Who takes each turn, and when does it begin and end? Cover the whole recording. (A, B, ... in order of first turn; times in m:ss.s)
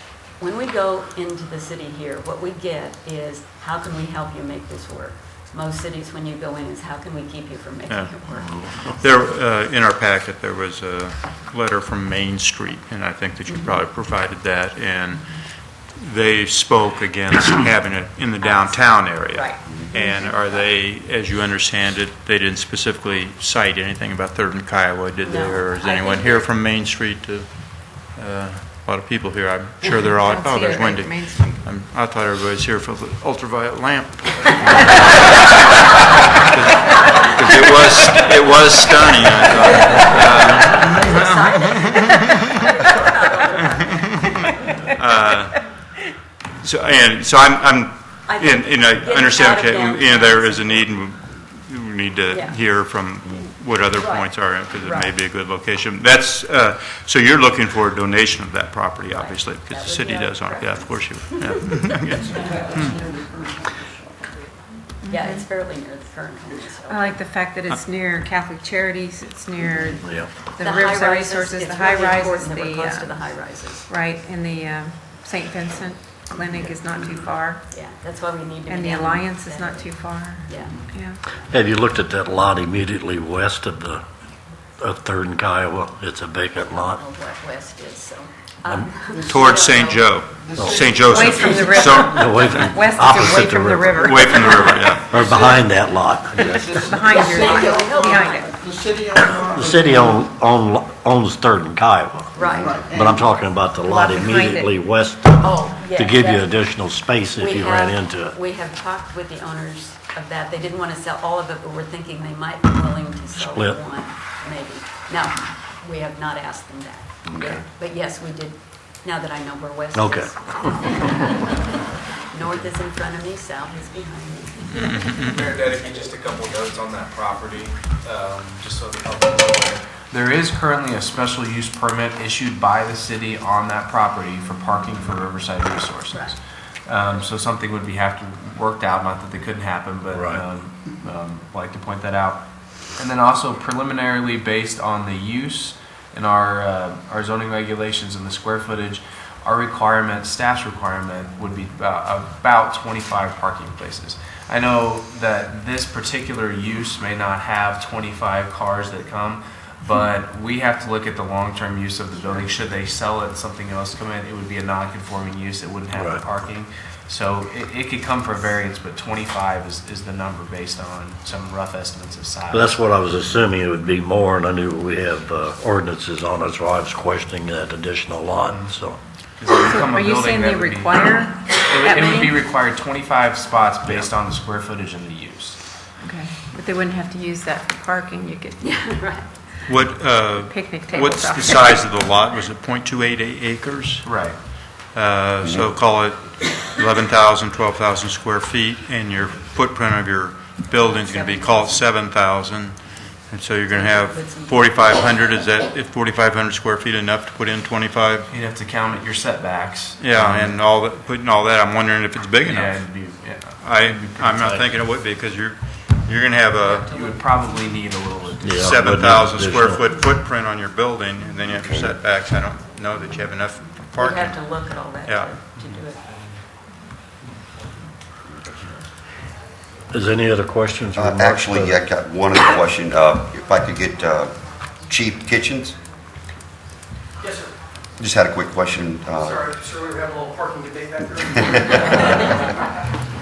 0:00.4-0:08.5 A
0:07.9-0:35.7 B
0:08.5-0:08.9 C
0:13.5-0:13.8 A
0:18.4-0:20.7 A
0:25.2-0:26.5 A
0:30.0-0:31.6 D
0:36.5-0:42.6 B
0:39.7-0:44.9 A
0:43.7-0:45.6 B
0:46.6-1:02.9 B
0:48.3-0:50.9 A
0:52.3-0:52.6 A
0:54.0-0:55.1 A
0:59.1-1:02.5 A
1:02.9-1:03.2 E
1:05.0-1:05.4 D
1:05.1-1:07.2 A
1:06.9-1:13.2 D
1:10.0-1:10.3 C
1:10.6-1:13.9 A
1:13.8-1:17.6 D
1:16.5-1:21.5 A
1:18.7-1:21.2 D
1:21.5-1:24.0 C
1:24.8-1:27.0 C
1:26.7-1:30.0 A
1:29.3-1:32.7 B
1:30.5-1:31.2 E
1:30.6-1:34.3 C
1:31.1-1:34.9 D
1:34.0-1:35.2 B
1:35.0-1:36.9 C
1:36.7-1:39.6 E
1:36.8-1:38.5 D
1:37.1-1:38.6 A
1:39.2-1:48.3 C
1:42.3-1:42.8 A
1:43.9-1:44.7 D
1:45.4-1:46.5 A
1:47.4-2:01.7 A
1:53.4-1:53.8 C
1:57.2-1:57.6 F
1:59.9-2:01.1 C
2:02.3-2:05.0 A
2:04.7-2:05.4 B
2:05.2-2:22.4 G
2:20.1-2:20.4 C
2:23.0-2:52.8 G
2:45.9-2:46.2 C
2:52.5-2:59.0 C
2:59.4-3:05.6 G
2:59.5-3:02.4 D
3:06.0-3:08.8 D
3:08.6-3:09.4 A
3:09.6-3:14.0 B
3:10.4-3:11.8 D
3:14.0-3:14.4 G
3:14.7-3:28.3 B
3:15.4-3:15.7 F
3:20.8-3:21.8 A
3:23.7-3:25.3 A
3:28.3-3:30.6 G
3:30.0-3:32.8 B
3:32.2-3:34.7 G
3:33.6-3:36.9 B
3:36.6-3:37.4 A
3:36.9-3:38.9 G
3:38.4-3:39.8 C
3:38.5-3:44.4 B
3:41.5-3:42.0 F
3:43.9-3:46.0 A
3:45.0-3:45.4 B
3:49.9-3:51.8 C
3:50.9-3:54.3 F
3:54.9-3:55.8 F
3:57.2-3:57.5 H
3:58.0-3:59.5 F
3:59.2-4:02.3 H